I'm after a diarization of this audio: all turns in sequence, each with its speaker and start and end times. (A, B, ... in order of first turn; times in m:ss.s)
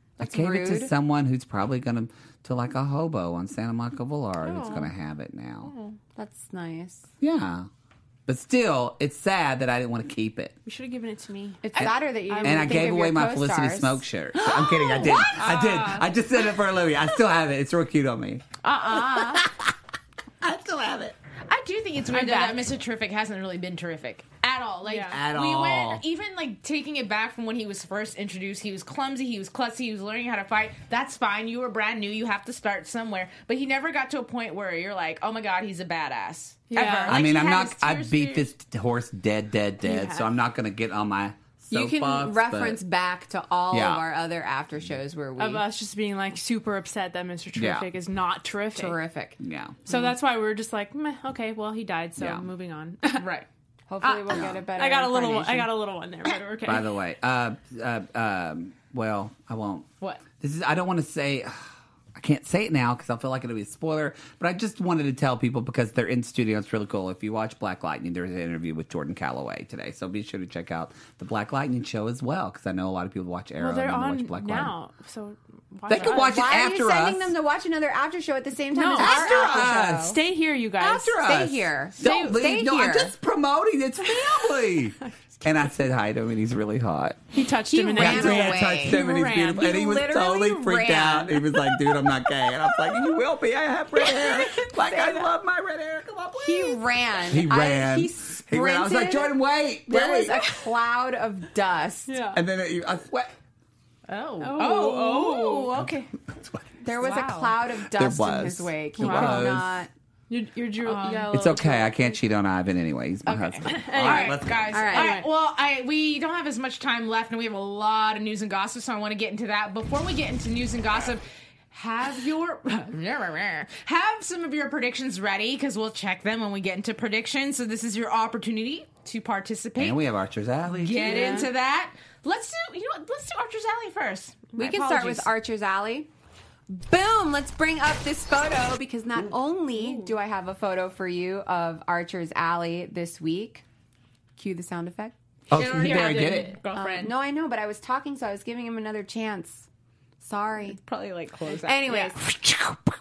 0:00.2-0:00.9 A
0:00.2-0:05.7 B
0:04.5-0:04.9 C
0:05.6-0:06.0 D
0:06.2-0:07.1 A
0:07.2-0:07.7 B
0:08.3-0:10.5 B
0:10.6-0:13.0 C
0:11.6-0:14.0 A
0:11.8-0:19.7 B
0:14.4-0:15.8 D
0:15.3-0:16.0 C
0:18.6-0:19.5 D
0:20.4-0:21.2 B
0:21.5-0:38.5 D
0:22.1-0:22.7 C
0:24.8-0:25.2 C
0:25.1-0:26.0 B
0:36.7-0:37.2 C
0:37.1-0:42.8 B
0:39.8-0:40.3 C
0:41.7-0:45.6 A
0:43.7-0:44.0 B
0:45.4-0:49.0 C
0:47.6-0:47.9 B
0:48.8-0:49.4 A
0:49.4-0:49.8 B
0:49.9-0:53.3 C
0:52.2-0:52.5 B
0:53.2-0:53.5 D
0:53.9-0:55.7 A
0:54.0-0:56.9 C
0:54.3-0:54.6 B
0:56.7-0:59.9 B
1:00.4-1:14.7 B
1:13.6-1:16.4 C
1:15.9-1:17.3 B
1:16.0-1:20.2 A
1:18.7-1:21.2 C
1:18.9-1:20.2 B
1:20.8-1:23.1 A
1:20.8-1:27.2 B
1:22.0-1:22.4 C
1:27.3-1:29.5 C
1:27.7-1:31.5 A
1:28.0-1:40.4 B
1:34.1-1:34.7 C
1:34.8-1:35.3 A
1:36.4-1:39.4 A
1:39.9-1:42.3 A
1:40.4-1:40.6 C
1:42.1-1:42.4 C
1:42.3-1:43.3 B
1:44.1-1:46.0 D
1:44.4-1:46.1 C
1:45.8-1:46.7 B
1:46.8-1:49.9 A
1:47.0-1:47.6 D
1:47.9-1:49.9 B
1:49.0-1:49.5 C
1:50.3-1:52.1 C
1:50.8-1:51.3 D
1:51.3-1:54.8 B
1:53.3-2:10.0 D
1:53.7-1:54.4 C
1:54.7-1:55.2 A
1:54.9-1:55.3 C
2:09.8-2:11.4 B
2:10.7-2:15.3 D
2:11.1-2:11.5 A
2:11.1-2:11.5 C
2:14.6-2:16.1 A
2:16.7-2:23.6 A
2:19.8-2:20.2 D
2:24.4-2:25.1 A
2:25.5-2:26.6 B
2:25.5-2:27.1 D
2:25.6-2:29.7 A
2:30.2-2:30.8 A
2:30.7-2:32.1 D
2:31.5-2:32.8 A